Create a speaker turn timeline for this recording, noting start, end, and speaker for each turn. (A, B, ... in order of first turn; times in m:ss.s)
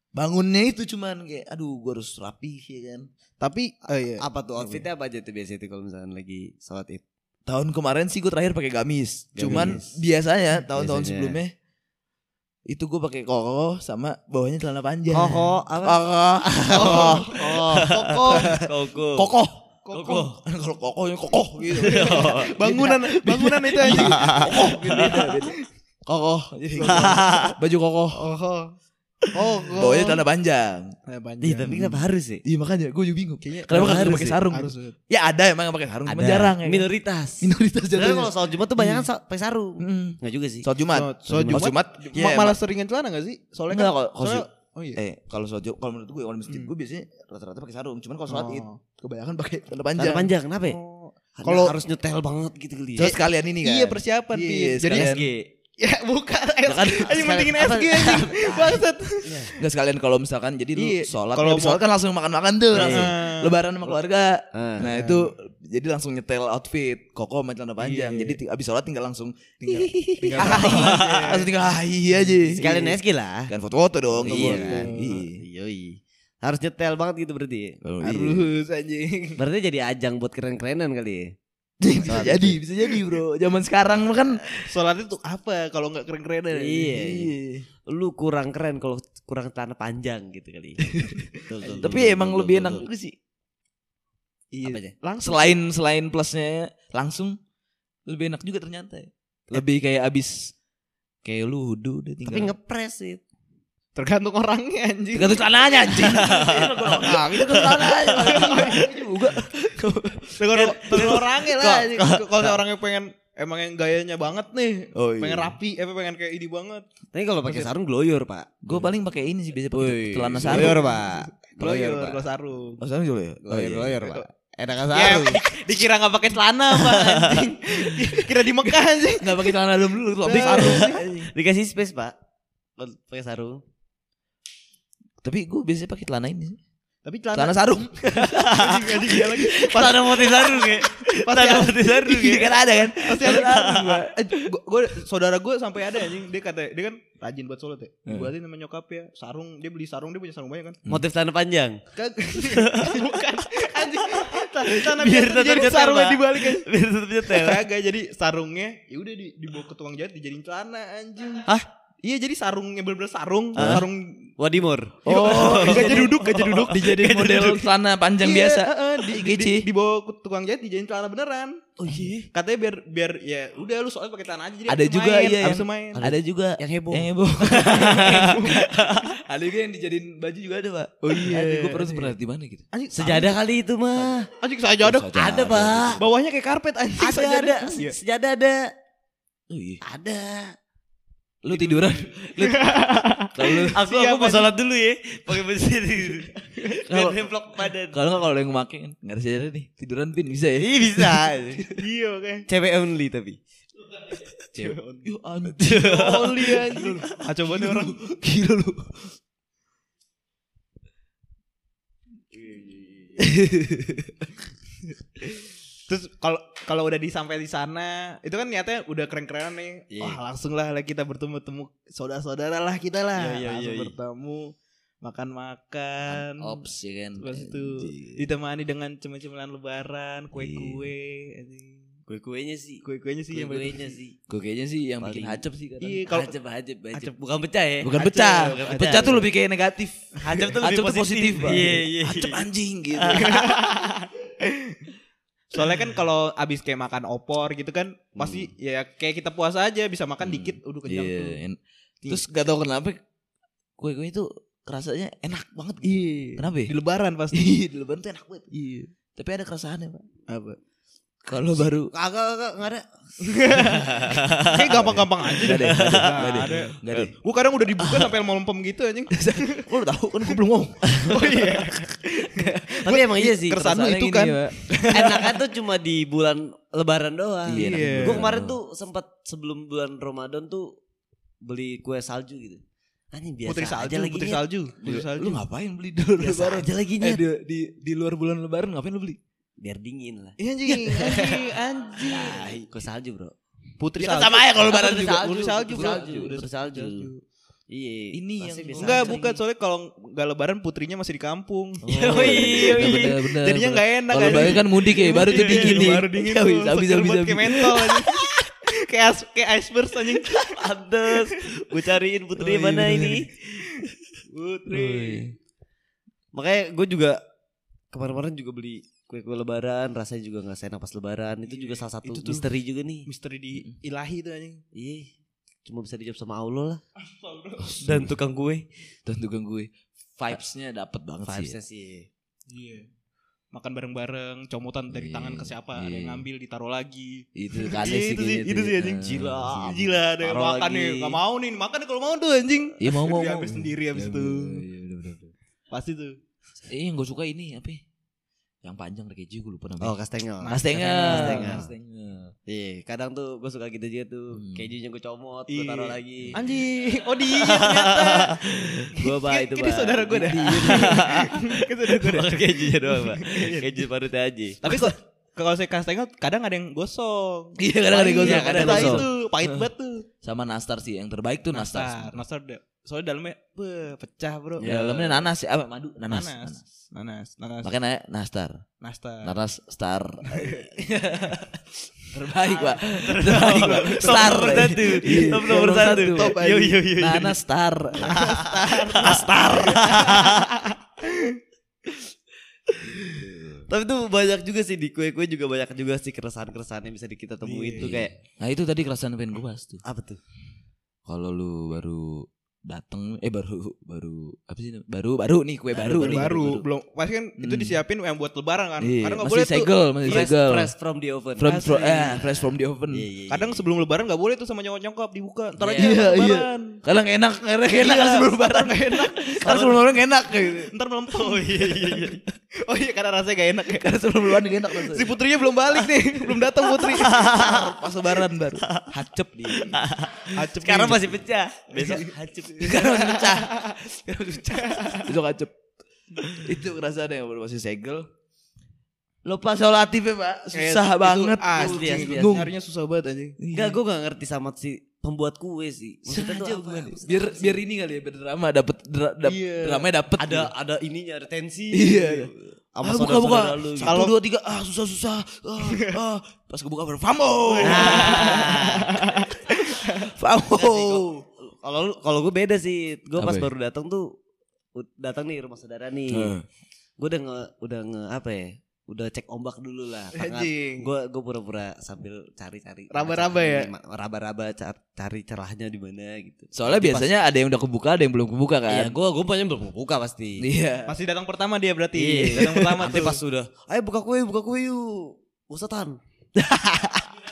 0:00.2-0:03.1 A
0:03.4-0:04.2 B
0:04.2-0:07.0 C
0:07.5-0:11.5 A
0:09.4-0:10.0 C
0:10.7-0:11.4 C
0:12.7-0:19.6 A
0:15.1-0:19.4 C
0:16.7-0:18.6 B
0:19.8-0:20.3 B
0:19.9-0:20.4 C
0:20.4-0:25.5 A
0:21.7-0:23.0 C
0:21.8-0:25.4 B
0:23.8-0:25.4 C
0:26.1-0:28.3 A
0:26.8-0:27.5 B
0:26.8-0:27.6 C
0:28.1-0:28.8 B
0:29.3-0:30.2 B
0:29.8-0:31.0 A
0:31.1-0:31.7 B
0:31.4-0:32.4 C
0:31.7-0:39.0 A
0:33.4-0:35.0 B
0:33.7-0:34.4 C
0:36.1-0:40.7 C
0:39.8-0:42.6 A
0:40.9-0:45.0 B
0:41.2-0:41.6 C
0:43.7-0:48.7 A
0:48.3-0:49.7 B
0:49.7-0:50.3 A
0:50.0-0:50.8 C
0:50.6-0:51.7 B
0:51.4-0:53.1 C
0:53.0-0:55.3 A
0:53.0-0:55.2 B
0:54.8-0:55.5 C
0:55.8-0:59.6 B
0:56.7-0:57.5 A
0:57.1-0:59.5 C
0:59.6-1:12.9 A
1:00.8-1:01.8 B
1:02.7-1:03.6 B
1:02.8-1:03.1 C
1:04.5-1:04.9 C
1:04.8-1:05.3 B
1:07.8-1:08.4 B
1:09.6-1:11.5 B
1:10.1-1:11.3 C
1:12.3-1:12.9 B
1:12.6-1:13.5 C
1:13.5-1:15.4 A
1:14.2-1:17.8 C
1:14.3-1:15.2 B
1:17.8-1:18.5 A
1:18.0-1:19.4 B
1:19.4-1:21.3 C
1:21.8-1:24.6 A
1:22.0-1:22.6 C
1:24.6-1:27.0 B
1:26.5-1:27.3 C
1:26.9-1:27.7 A
1:27.9-1:32.9 C
1:30.9-1:33.2 A
1:31.6-1:31.9 B
1:34.5-1:35.6 B
1:34.6-1:34.9 C
1:35.2-1:37.4 A
1:38.1-1:40.5 A
1:41.2-1:42.5 A
1:42.3-1:43.2 C
1:44.0-1:45.4 B
1:45.1-1:51.2 A
1:46.0-1:48.5 C
1:48.1-1:49.1 B
1:50.4-1:56.8 B
1:50.5-1:52.6 C
1:55.0-1:55.6 A
1:57.1-1:58.6 C
1:58.6-2:00.8 A
1:59.7-2:02.2 C
2:00.4-2:02.8 B
2:02.8-2:04.1 A
2:03.4-2:05.4 C
2:04.9-2:09.6 B
2:06.8-2:07.5 C
2:07.7-2:11.3 A
2:10.2-2:11.0 B
2:10.3-2:12.2 C
2:12.8-2:13.6 C
2:15.2-2:16.6 A
2:17.0-2:20.2 B
2:17.3-2:24.5 A
2:18.3-2:18.9 C
2:19.6-2:22.5 C
2:21.2-2:22.0 B
2:23.0-2:30.8 B
2:23.2-2:24.0 C
2:30.9-2:31.8 C
2:32.0-2:36.7 B
2:32.3-2:33.1 C
2:33.8-2:37.7 C
2:37.2-2:41.5 B
2:42.0-2:44.3 B
2:43.6-2:43.9 C
2:43.6-2:43.9 A
2:44.4-2:46.7 C
2:45.0-2:49.7 A
2:45.1-2:51.7 B
2:51.8-2:52.3 C
2:51.8-2:52.2 A
2:52.3-2:56.1 B
2:54.7-3:02.6 A
2:56.0-2:58.8 C
2:57.6-2:58.7 B
3:01.0-3:02.1 B
3:02.7-3:03.4 B
3:02.9-3:04.3 C
3:04.4-3:05.1 B
3:04.8-3:06.0 A
3:05.2-3:06.0 C
3:06.0-3:08.0 B
3:07.0-3:08.7 C
3:09.5-3:09.8 A
3:09.8-3:10.5 C
3:11.4-3:13.8 A
3:11.5-3:14.6 B
3:13.7-3:18.0 C
3:16.5-3:16.8 B
3:16.9-3:17.3 A
3:17.9-3:21.8 A
3:20.6-3:21.7 C
3:21.8-3:22.5 B
3:22.5-3:23.4 C
3:24.0-3:25.1 C
3:24.5-3:29.2 A
3:25.6-3:27.0 C
3:25.8-3:28.0 B
3:32.3-3:33.3 C
3:33.2-3:34.3 A
3:35.9-3:46.6 B
3:39.9-3:40.2 C
3:43.1-3:44.0 C
3:46.1-3:48.2 A
3:47.2-3:51.8 B
3:50.4-3:50.9 A
3:52.1-3:54.2 C
3:52.8-3:54.0 B
3:54.3-3:56.3 A
3:55.0-3:55.4 C
3:55.8-3:56.3 B
3:56.1-3:59.2 C
3:57.8-4:03.8 A
3:57.9-3:59.2 B
4:00.2-4:03.3 C
4:03.2-4:04.9 B
4:05.5-4:11.4 B
4:08.2-4:08.5 C
4:10.2-4:13.0 A
4:13.8-4:16.7 A
4:15.8-4:17.6 B
4:17.3-4:18.6 A
4:18.5-4:18.9 B
4:19.1-4:20.0 A
4:20.3-4:20.6 B
4:21.2-4:21.9 A
4:21.9-4:22.8 C
4:23.2-4:29.7 B
4:23.4-4:24.9 C
4:24.7-4:27.2 A
4:25.4-4:26.6 C
4:27.8-4:28.2 A
4:29.1-4:31.7 A
4:30.9-4:31.3 C
4:31.1-4:35.3 B
4:32.7-4:33.8 C
4:33.6-4:35.1 A
4:34.9-4:40.8 C
4:37.5-4:38.6 A
4:37.6-4:38.2 B
4:41.4-4:42.6 C
4:43.1-4:44.4 C
4:43.5-4:45.4 B
4:44.8-4:49.2 A
4:46.2-4:47.2 C
4:49.6-4:50.4 C
4:50.4-4:52.4 B
4:50.7-4:51.4 A
4:52.0-4:53.3 C
4:52.0-4:52.7 A
4:53.8-4:57.2 B
4:54.0-4:56.4 A
4:54.6-4:57.1 C
4:57.7-4:59.4 C
4:58.1-4:59.2 A
4:58.8-5:10.6 B
5:01.8-5:08.4 A
5:01.9-5:03.2 C
5:04.3-5:05.9 C
5:10.3-5:13.3 C
5:12.4-5:13.3 A
5:14.3-5:15.2 B
5:14.7-5:15.3 A
5:14.8-5:15.2 C
5:16.3-5:17.2 C
5:17.9-5:23.1 C
5:21.5-5:22.5 B
5:23.1-5:24.6 B
5:24.7-5:25.1 C
5:25.7-5:26.8 C
5:27.0-5:27.7 B
5:27.6-5:28.1 A
5:27.8-5:28.7 C
5:29.1-5:31.6 A
5:31.2-5:32.1 C
5:32.5-5:32.9 B
5:33.5-5:44.7 B
5:34.9-5:36.2 A
5:37.4-5:39.8 A
5:39.0-5:41.2 C
5:42.8-5:45.3 A
5:45.7-5:46.2 B
5:46.7-5:47.8 A
5:48.6-5:50.0 A
5:49.8-5:51.7 C
5:50.4-5:51.7 B
5:50.5-5:52.3 A
5:52.5-5:56.4 C
5:54.4-5:54.7 A
5:55.5-5:58.4 B
5:56.2-5:56.6 A
5:57.3-6:04.6 C
5:58.9-5:59.2 A
5:59.0-6:03.8 B
6:00.0-6:01.4 A
6:04.6-6:10.1 B
6:07.6-6:09.7 A
6:08.2-6:09.1 C
6:10.2-6:12.2 A
6:11.5-6:14.7 B
6:14.6-6:15.3 C
6:14.6-6:16.6 A
6:16.1-6:17.7 B
6:17.6-6:18.6 A
6:18.8-6:19.3 B
6:19.2-6:26.4 A
6:20.3-6:20.7 B
6:22.6-6:26.9 B
6:22.9-6:27.4 C
6:27.0-6:28.4 A
6:28.0-6:30.6 C
6:28.1-6:31.4 B
6:29.0-6:30.0 A
6:32.8-6:38.1 C
6:33.0-6:33.6 A
6:37.4-6:37.9 B
6:37.8-6:39.8 A
6:39.8-6:40.2 C
6:41.1-6:46.7 A
6:45.7-6:46.2 C
6:45.9-6:50.3 B
6:47.4-6:47.8 A
6:48.8-6:50.7 A
6:50.0-6:53.6 C
6:51.4-6:53.0 A
6:51.5-6:52.3 B
6:53.3-6:56.8 B
6:55.6-6:56.0 C
6:55.8-7:00.7 A
6:57.8-6:59.9 B
6:59.5-6:59.8 C
7:00.6-7:04.0 B
7:01.1-7:02.2 C
7:03.8-7:05.2 A
7:04.8-7:07.4 B
7:06.8-7:07.7 C
7:07.2-7:09.8 A
7:08.6-7:08.9 C
7:09.6-7:12.9 C
7:10.3-7:11.2 B
7:11.8-7:12.1 B
7:12.6-7:15.5 A
7:12.6-7:13.8 B
7:14.5-7:15.1 B
7:16.2-7:18.1 A
7:19.2-7:22.5 A
7:20.5-7:23.4 B
7:21.5-7:22.4 C
7:23.4-7:23.8 A
7:23.5-7:27.6 C
7:26.1-7:30.5 A
7:29.2-7:29.9 B
7:30.2-7:34.0 C
7:31.7-7:32.3 A
7:32.8-7:41.2 A
7:33.8-7:34.2 B
7:37.5-7:40.1 B
7:37.6-7:39.0 C
7:40.5-7:44.1 C
7:43.2-7:43.5 A
7:44.8-7:46.3 C
7:46.1-7:46.4 A
7:47.0-7:57.1 C
7:50.2-7:50.9 B
7:52.9-7:53.7 B
7:56.5-7:59.0 A
7:58.7-8:00.5 C
8:00.4-8:00.9 A
8:00.9-8:03.2 B
8:02.0-8:06.0 C
8:02.4-8:03.1 A
8:06.4-8:07.1 A